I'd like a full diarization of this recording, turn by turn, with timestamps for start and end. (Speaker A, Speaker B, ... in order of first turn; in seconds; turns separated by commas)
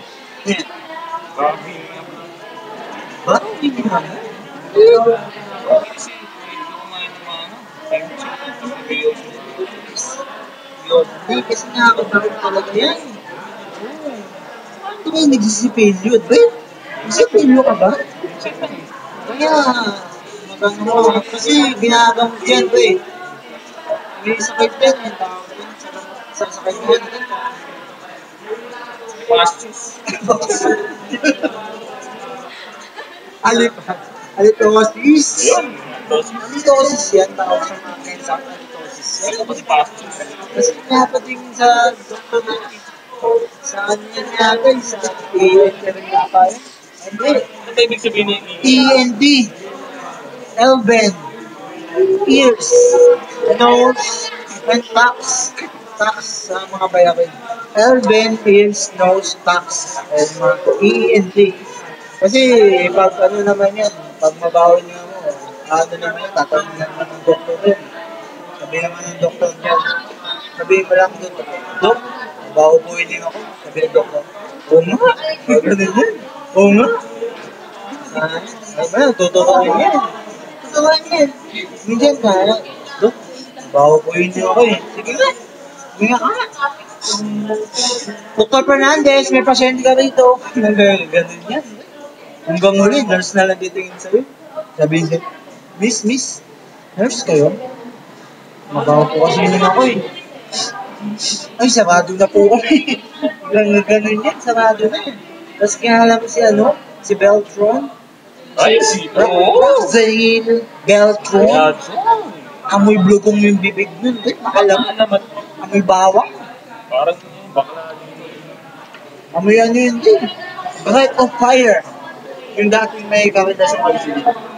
Speaker A: 1.3-2.3, Speaker B: 3.2-5.2, Speaker A: 5.6-9.6, Speaker B: 9.7-10.2, Speaker B: 10.8-13.2, Speaker B: 13.8-14.2, Speaker B: 14.8-16.5, Speaker B: 17.0-18.1, Speaker A: 18.2-18.9, Speaker B: 19.2-23.0, Speaker B: 24.2-27.6, Speaker A: 29.1-30.0, Speaker B: 30.1-31.5, Speaker B: 33.4-35.7, Speaker A: 35.4-36.4, Speaker B: 36.3-39.5, Speaker A: 39.3-40.5, Speaker B: 40.4-47.5, Speaker A: 47.4-49.0, Speaker B: 48.6-49.5, Speaker B: 50.6-51.3, Speaker B: 52.0-61.6, Speaker B: 62.2-67.8, Speaker B: 68.6-77.0, Speaker B: 78.0-83.2, Speaker B: 83.7-85.4, Speaker B: 86.0-91.9, Speaker B: 92.5-95.2, Speaker B: 95.8-96.4, Speaker B: 97.0-97.6, Speaker B: 98.7-100.1, Speaker B: 101.2-107.9, Speaker A: 108.6-110.0, Speaker B: 109.1-111.7, Speaker A: 111.4-112.5, Speaker B: 112.7-114.9, Speaker A: 114.5-115.3, Speaker B: 115.6-116.3, Speaker A: 116.9-118.4, Speaker B: 119.3-120.3, Speaker B: 120.8-121.8, Speaker B: 122.5-124.3